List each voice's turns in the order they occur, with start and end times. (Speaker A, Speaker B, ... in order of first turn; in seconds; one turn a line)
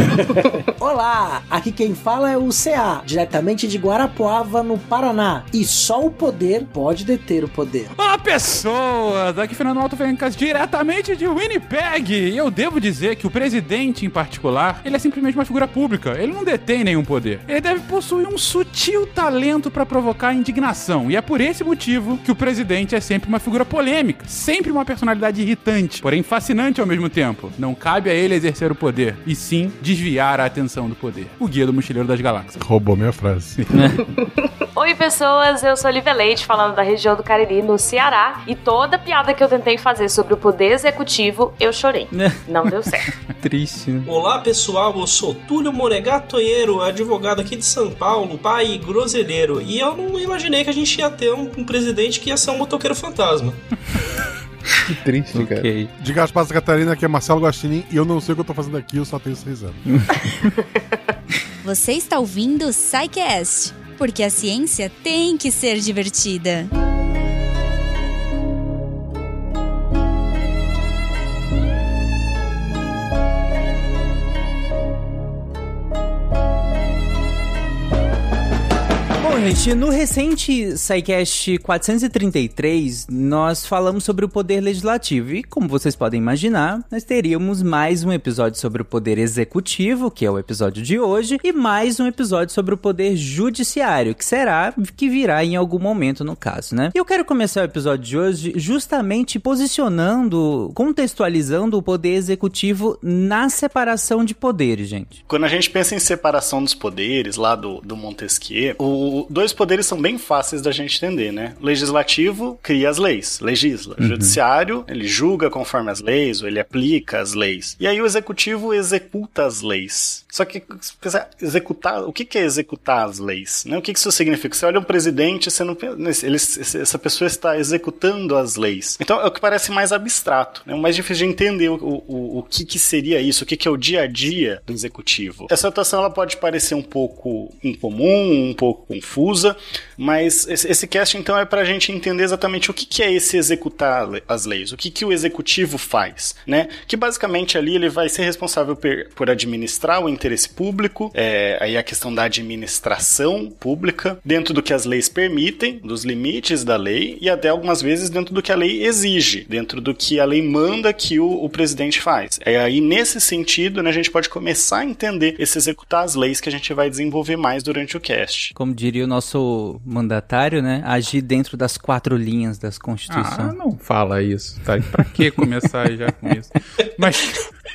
Speaker A: 0.8-7.9
Speaker B: 8.0-32.6
Speaker C: 32.6-33.6
Speaker D: 34.7-43.1
Speaker E: 42.1-42.4
Speaker E: 43.4-44.1
Speaker F: 44.0-53.6
Speaker B: 55.0-55.6
Speaker E: 55.3-55.9
Speaker C: 56.0-59.8
Speaker E: 59.9-60.5
Speaker G: 61.6-66.7
Speaker E: 79.2-105.2
Speaker H: 105.3-168.5
Speaker E: 114.0-114.4
Speaker E: 168.6-173.6
Speaker B: 173.1-177.4